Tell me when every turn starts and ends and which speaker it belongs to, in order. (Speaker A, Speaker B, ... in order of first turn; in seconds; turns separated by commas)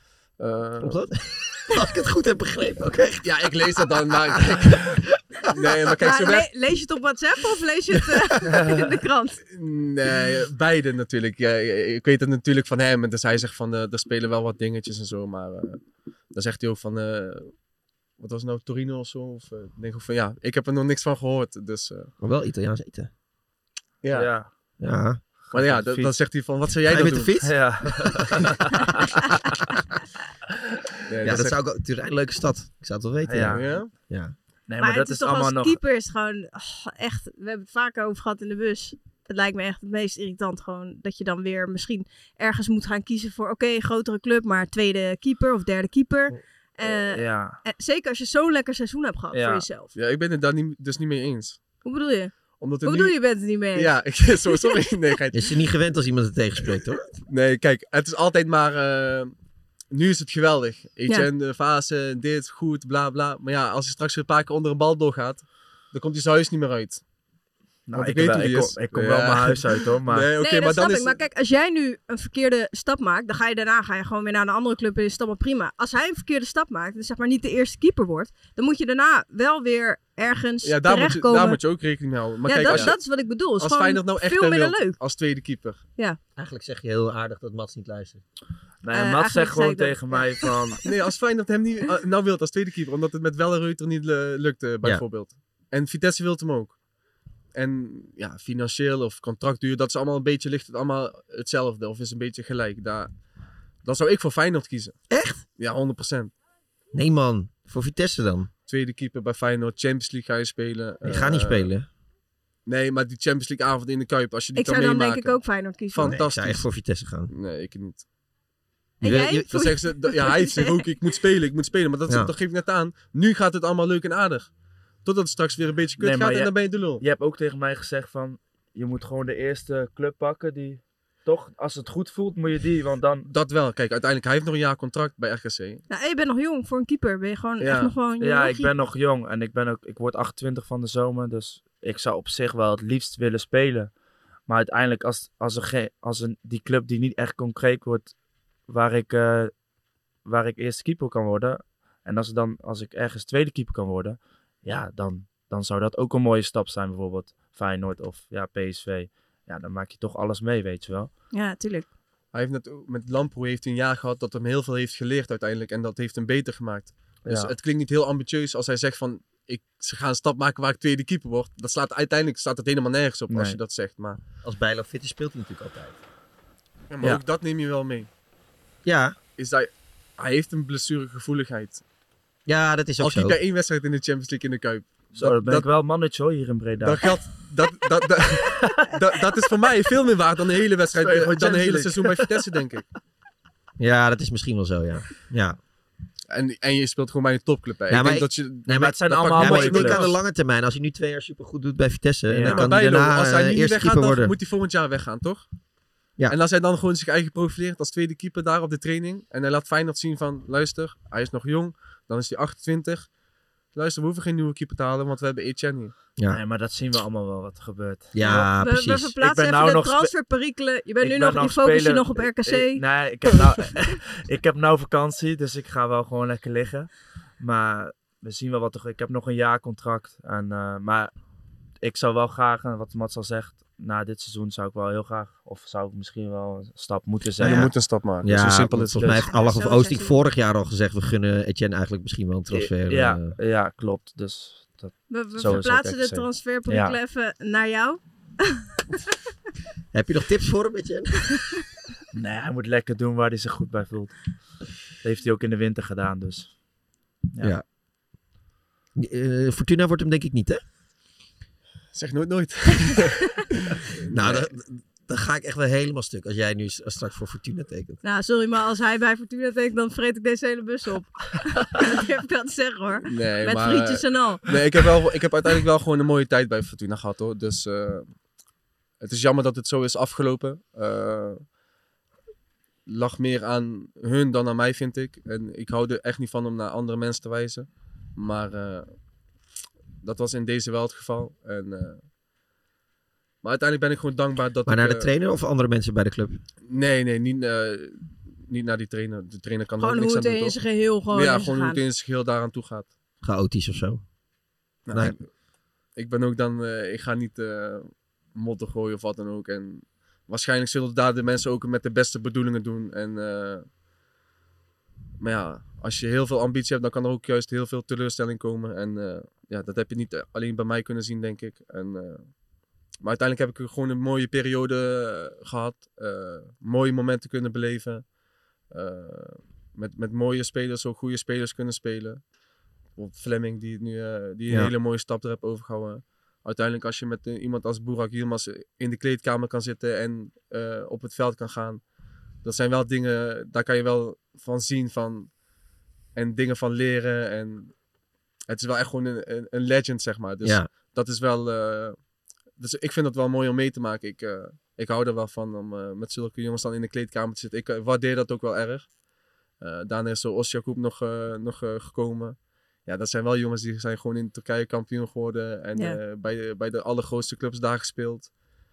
Speaker A: 0.4-1.0, Speaker B: 0.8-3.6, Speaker A: 3.2-6.5, Speaker C: 6.0-9.4, Speaker A: 9.5-17.6, Speaker A: 18.2-22.1, Speaker B: 22.2-23.1, Speaker A: 24.0-24.3, Speaker D: 24.1-24.5, Speaker B: 24.8-25.2, Speaker D: 25.5-26.1, Speaker A: 25.5-27.5, Speaker B: 26.9-28.9, Speaker D: 27.4-29.2, Speaker A: 31.1-31.6, Speaker B: 31.2-34.3, Speaker D: 33.3-33.7, Speaker A: 33.5-33.9, Speaker D: 34.7-35.8, Speaker C: 34.8-49.9, Speaker D: 47.1-47.6, Speaker D: 49.3-49.6, Speaker A: 50.0-51.6, Speaker C: 51.8-54.7, Speaker A: 52.6-53.1, Speaker A: 53.7-55.5, Speaker B: 55.3-57.1, Speaker A: 57.3-59.3, Speaker A: 59.9-67.0, Speaker D: 67.9-70.3, Speaker A: 67.9-71.2, Speaker C: 70.4-81.6, Speaker A: 80.6-83.0, Speaker C: 82.5-85.0, Speaker A: 83.6-85.8, Speaker B: 86.4-88.2, Speaker D: 88.8-90.8, Speaker C: 88.9-90.3, Speaker A: 90.8-96.8, Speaker A: 97.5-103.1, Speaker A: 103.8-105.0, Speaker B: 105.1-105.4, Speaker A: 105.6-106.3, Speaker B: 106.9-108.5, Speaker A: 108.7-111.7, Speaker B: 111.0-111.9, Speaker A: 112.7-116.7, Speaker C: 114.6-116.2, Speaker B: 116.0-117.3, Speaker A: 117.3-118.0, Speaker C: 119.0-120.7, Speaker B: 119.0-119.5, Speaker A: 119.5-124.5, Speaker B: 122.1-122.3, Speaker A: 125.0-127.0, Speaker D: 126.0-133.3, Speaker A: 133.3-135.8, Speaker C: 135.9-138.7, Speaker A: 137.6-137.9, Speaker D: 138.2-143.9, Speaker D: 144.4-148.1, Speaker D: 148.7-149.5, Speaker D: 150.2-161.1, Speaker C: 161.3-161.9, Speaker A: 162.3-174.2, Speaker D: 167.2-167.5, Speaker D: 173.3-173.6, Speaker B: 174.4-175.9, Speaker A: 176.9-178.1, Speaker B: 178.8-179.2, Speaker A: 179.4-181.8, Speaker B: 182.4-183.4, Speaker A: 183.0-185.7, Speaker D: 185.1-187.1, Speaker A: 186.8-192.8, Speaker D: 188.6-188.9, Speaker D: 190.9-192.6, Speaker B: 193.8-195.6, Speaker A: 196.3-200.1, Speaker B: 197.9-204.3, Speaker D: 198.7-200.0, Speaker D: 202.3-202.7, Speaker A: 202.4-205.4, Speaker A: 206.3-213.1, Speaker A: 213.7-215.9, Speaker D: 216.3-218.5, Speaker B: 218.1-219.1, Speaker C: 218.2-222.8, Speaker D: 219.2-220.1, Speaker D: 221.0-231.1, Speaker D: 231.8-237.7, Speaker A: 237.4-239.2, Speaker B: 237.4-243.3, Speaker C: 239.2-240.2, Speaker D: 242.5-246.9, Speaker C: 245.1-248.6, Speaker B: 249.9-251.4, Speaker D: 252.1-256.6, Speaker B: 258.9-260.6, Speaker A: 261.9-263.5, Speaker A: 264.1-264.5, Speaker B: 264.1-268.0, Speaker C: 268.0-274.5, Speaker A: 273.1-278.1, Speaker A: 279.0-281.5, Speaker A: 282.9-288.9, Speaker A: 290.0-292.0, Speaker A: 293.4-295.1, Speaker B: 294.7-296.4, Speaker A: 296.7-300.6, Speaker C: 299.8-301.8, Speaker A: 301.1-302.9, Speaker B: 303.2-304.0, Speaker A: 304.9-305.3, Speaker B: 304.9-305.2, Speaker A: 305.9-313.7, Speaker A: 315.2-322.3, Speaker A: 323.0-328.1, Speaker A: 328.7-332.2, Speaker A: 332.9-341.8, Speaker B: 334.5-334.7, Speaker A: 342.4-345.4, Speaker A: 346.1-347.8, Speaker A: 348.5-352.0, Speaker B: 350.4-350.7, Speaker A: 352.6-359.0, Speaker A: 359.6-368.3